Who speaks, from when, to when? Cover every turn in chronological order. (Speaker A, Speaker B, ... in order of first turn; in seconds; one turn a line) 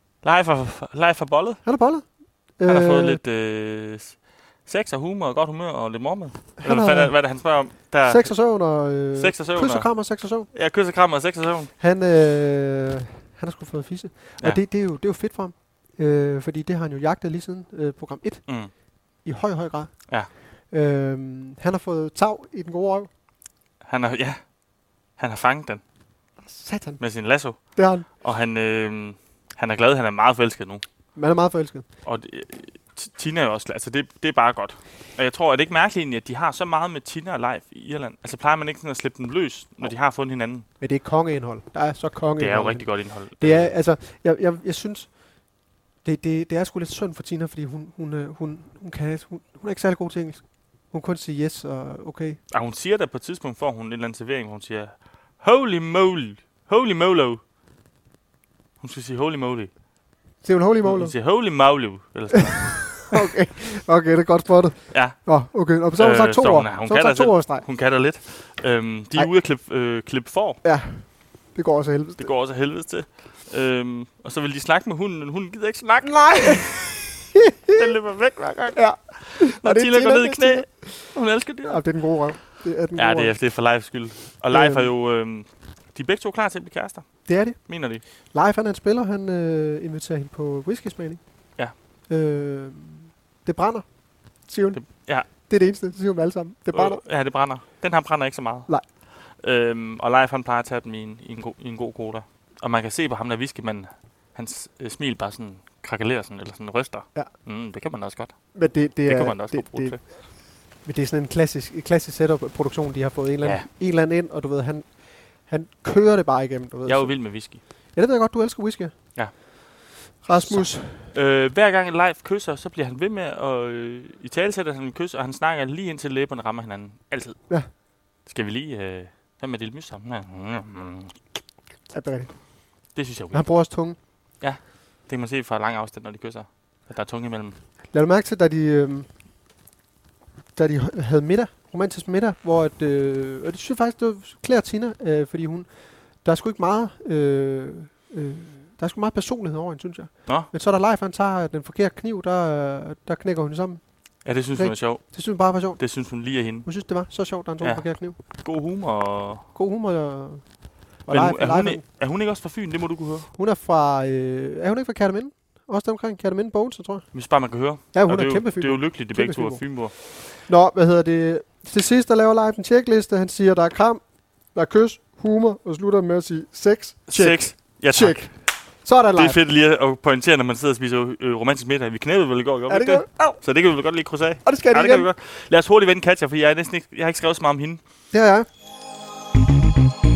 Speaker A: 0.2-1.6
Speaker B: 1.6-2.1
Speaker B: 2.6-3.2
Speaker A: 2.6-8.4
Speaker B: 6.6-7.3
Speaker B: 8.0-10.5
Speaker A: 9.2-9.9
Speaker A: 10.5-11.7
Speaker B: 11.8-23.1
Speaker A: 18.5-18.7
Speaker A: 23.8-24.5
Speaker A: 25.2-25.8
Speaker B: 26.4-27.0
Speaker A: 27.0-30.8
Speaker B: 27.7-28.1
Speaker B: 31.1-31.9
Speaker A: 32.0-40.7
Speaker B: 40.8-45.5
Speaker A: 42.4-43.8
Speaker B: 46.0-52.4
Speaker A: 52.5-57.4
Speaker A: 58.8-59.7
Speaker B: 60.4-61.1
Speaker A: 60.8-63.2
Speaker B: 63.1-67.7
Speaker A: 64.9-65.2
Speaker A: 66.0-70.6
Speaker B: 70.6-72.3
Speaker A: 72.2-77.0
Speaker B: 76.0-77.9
Speaker A: 77.7-81.8
Speaker B: 78.8-81.1
Speaker B: 81.7-83.4
Speaker A: 83.0-88.0
Speaker B: 84.5-84.9
Speaker B: 87.3-87.6
Speaker B: 88.3-91.2
Speaker B: 92.1-93.9
Speaker B: 94.4-97.0
Speaker A: 94.7-95.3
Speaker A: 96.7-110.0
Speaker B: 108.5-110.2
Speaker B: 110.8-119.4
Speaker A: 113.4-113.7
Speaker A: 116.8-117.6
Speaker A: 119.2-127.4
Speaker B: 120.2-121.1
Speaker A: 128.2-131.2
Speaker B: 131.9-132.3
Speaker A: 132.9-133.4
Speaker B: 133.3-134.0
Speaker A: 134.4-137.6
Speaker B: 137.9-139.1
Speaker B: 140.6-158.2
Speaker A: 154.2-156.7
Speaker A: 157.6-159.4
Speaker B: 159.6-161.8
Speaker A: 161.1-163.3
Speaker B: 163.3-167.1
Speaker A: 167.1-169.9
Speaker B: 167.9-174.0
Speaker B: 174.5-179.4
Speaker A: 177.1-178.3
Speaker A: 179.2-187.8
Speaker B: 182.7-183.4
Speaker B: 184.4-185.1
Speaker B: 188.1-188.5